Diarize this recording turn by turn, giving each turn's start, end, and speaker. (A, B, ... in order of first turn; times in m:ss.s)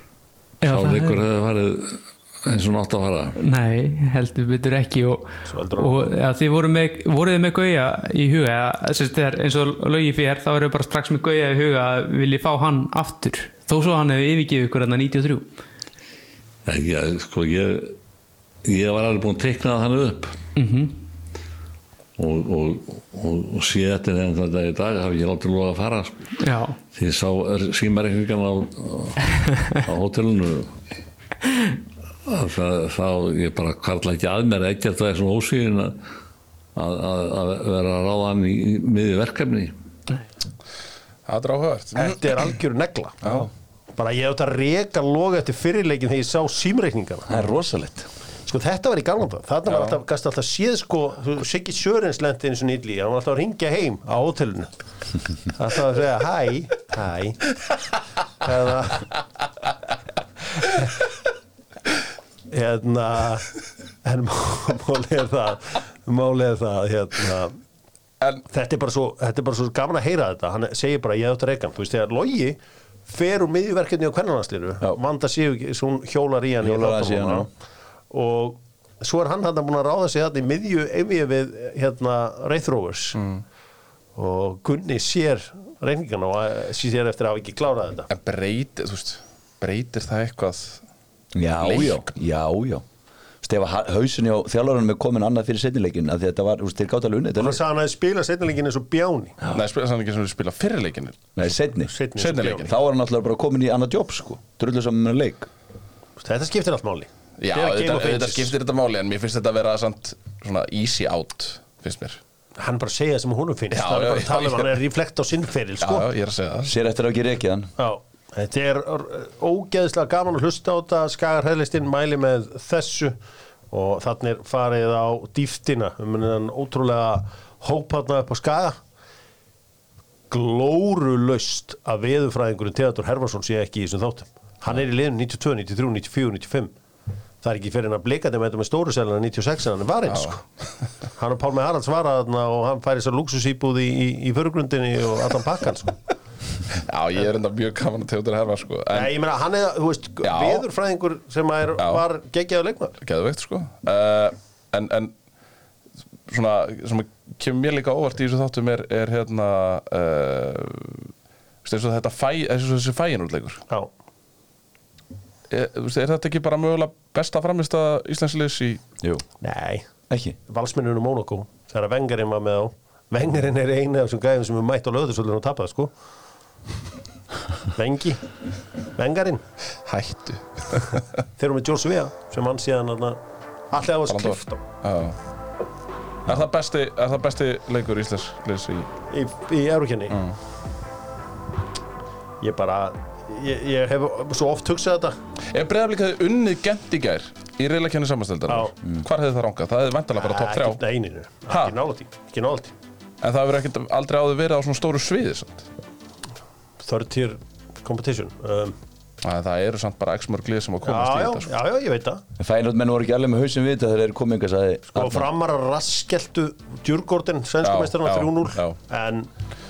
0:00.6-0:01.2 A
0:00.6-0:03.4 B
0:03.4-0:15.5 A
0:05.4-0:06.1 C
0:16.6-0:18.0 B
0:18.6-0:20.4 B
0:20.6-0:21.0 A
0:22.2-0:26.3 B
0:26.4-0:26.8 A
0:26.9-0:29.2 B
0:29.3-0:29.8 A
0:29.8-0:30.7 B
0:32.2-0:36.0 B
0:36.7-0:39.7 B
0:41.3-0:42.4 D
0:41.9-0:43.2 C
0:44.0-0:47.3 C
0:47.3-0:48.1 E
0:48.5-0:54.7 C
0:55.5-0:57.5 C
0:58.4-0:59.1 C
1:02.5-1:03.5 C
1:04.0-1:07.6 C
1:08.5-1:17.5 C
1:16.6-1:17.5 E
1:18.1-1:23.2 C
1:23.2-1:23.4 D
1:24.2-1:28.1 C
1:28.1-1:30.8 D
1:31.3-1:32.8 E
1:31.6-1:32.1 D
1:33.4-1:37.6 E
1:37.4-1:39.4 C
1:39.5-1:41.4 D
1:41.4-1:41.9 E
1:41.8-1:42.7 C
1:42.2-1:42.7 D
1:42.6-1:45.5 E
1:46.2-1:48.5 C
1:47.4-1:52.2 D
1:52.6-1:56.1 C
1:53.7-1:54.7 D
1:55.8-1:56.7 D
1:56.6-1:57.7 E
1:57.8-2:03.2 C
2:03.7-2:08.8 C
2:10.3-2:16.7 C
2:17.4-2:20.4 C
2:20.1-2:20.4 D
2:21.2-2:25.9 C
2:26.7-2:29.1 D
2:28.9-2:32.9 C
2:30.2-2:30.6 D
2:33.0-2:35.1 D
2:36.3-2:41.1 D
2:41.6-2:43.6 D
2:45.5-2:48.8 D
2:49.4-2:49.8 C
2:50.1-2:50.4 E
2:50.5-2:55.9 C
2:57.7-2:58.2 C
2:59.0-2:59.4 C
2:59.8-3:01.0 D
3:01.4-3:03.2 C
3:03.7-3:04.6 C
3:04.1-3:05.2 D
3:06.2-3:08.9 D
3:09.1-3:10.2 C
3:12.4-3:15.2 C
3:15.5-3:20.8 D
3:20.1-3:22.7 C
3:21.5-3:21.7 D
3:23.2-3:25.7 D
3:26.8-3:28.8 C
3:29.2-3:31.5 D
3:30.8-3:32.2 C
3:32.4-3:35.3 E
3:34.9-3:39.3 C
3:37.6-3:38.8 D